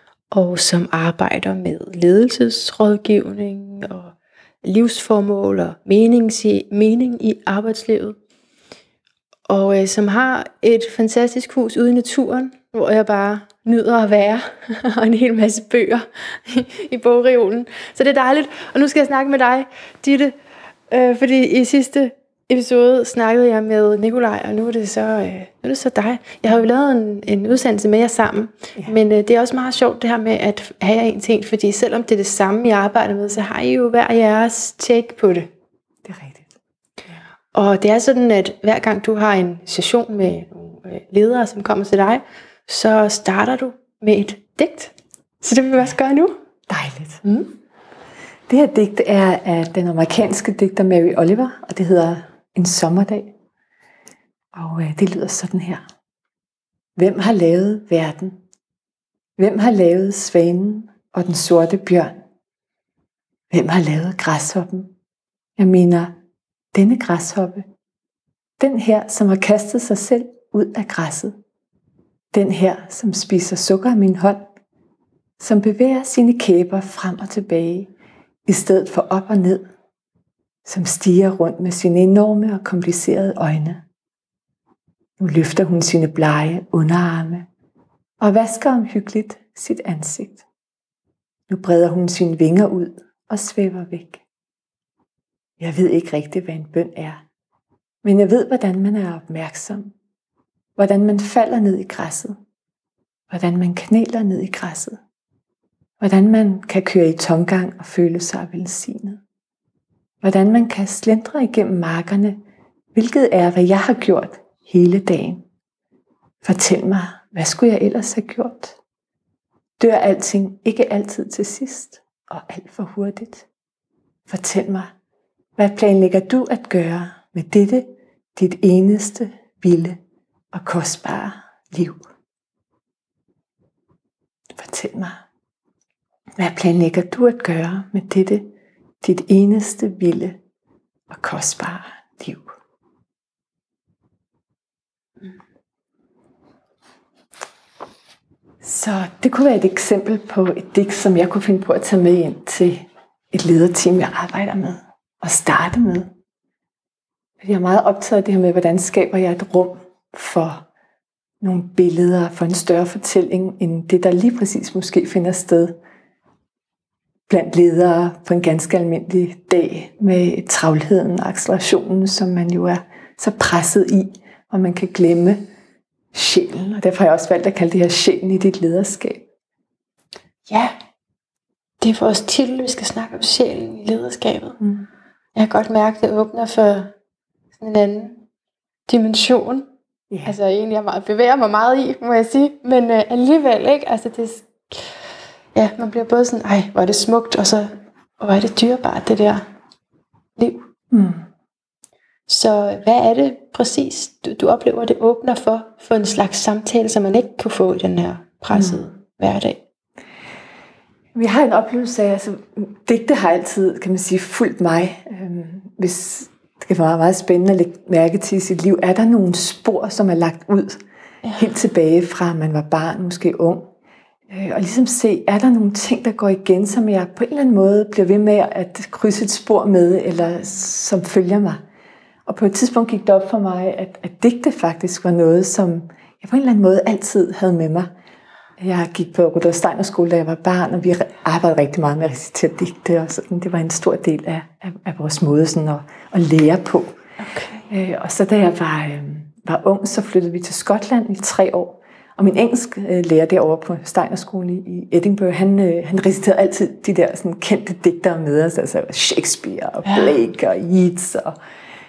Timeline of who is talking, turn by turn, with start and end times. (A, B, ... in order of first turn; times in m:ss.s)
0:00.3-0:08.2 A
0:09.5-0:20.3 A
0:20.9-0:35.5 A
0:36.0-0:36.5 B
0:37.5-0:46.3 A
0:46.7-0:47.2 B
0:47.2-0:47.5 A
0:48.5-0:53.3 B
0:54.5-0:55.8 B
0:57.0-0:58.4 B
0:59.4-1:02.1 B
1:03.5-1:04.9 B
1:05.6-1:06.1 B
1:06.7-1:07.6 B
1:08.6-1:11.3 B
1:12.3-1:14.5 B
1:15.4-1:17.9 B
1:18.4-1:19.6 B
1:20.6-1:23.8 B
1:25.2-1:27.5 B
1:28.2-1:30.4 B
1:31.5-1:34.2 B
1:35.6-1:37.2 B
1:38.0-1:39.9 B
1:40.8-1:42.4 B
1:43.3-1:45.0 B
1:46.0-1:49.2 B
1:50.2-1:52.4 B
1:53.0-1:55.4 B
1:56.4-1:58.8 B
1:59.8-2:03.4 B
2:04.3-2:04.9 B
2:05.6-2:10.0 B
2:10.5-2:12.0 B
2:14.6-2:15.2 B
2:16.4-2:18.5 B
2:19.0-2:20.4 B
2:21.1-2:22.4 B
2:28.6-2:36.1 B
2:37.4-2:40.6 B
2:41.4-2:45.8 B
2:47.3-2:55.4 B
2:56.1-2:59.2 B
3:00.5-3:00.7 A
3:01.8-3:04.6 A
3:04.6-3:04.9 B
3:05.4-3:06.9 A
3:07.6-3:08.2 A
3:08.9-3:09.7 A
3:10.2-3:14.8 A
3:15.6-3:19.4 A
3:20.4-3:20.6 A
3:20.9-3:21.2 B
3:22.3-3:29.6 A
3:28.5-3:28.8 B
3:31.1-3:40.8 B
3:41.3-3:43.7 B
3:44.3-3:51.6 B
3:52.3-3:57.9 B
3:58.6-4:06.9 B
4:07.2-4:07.7 A
4:07.7-4:21.4 B
4:19.8-4:20.1 A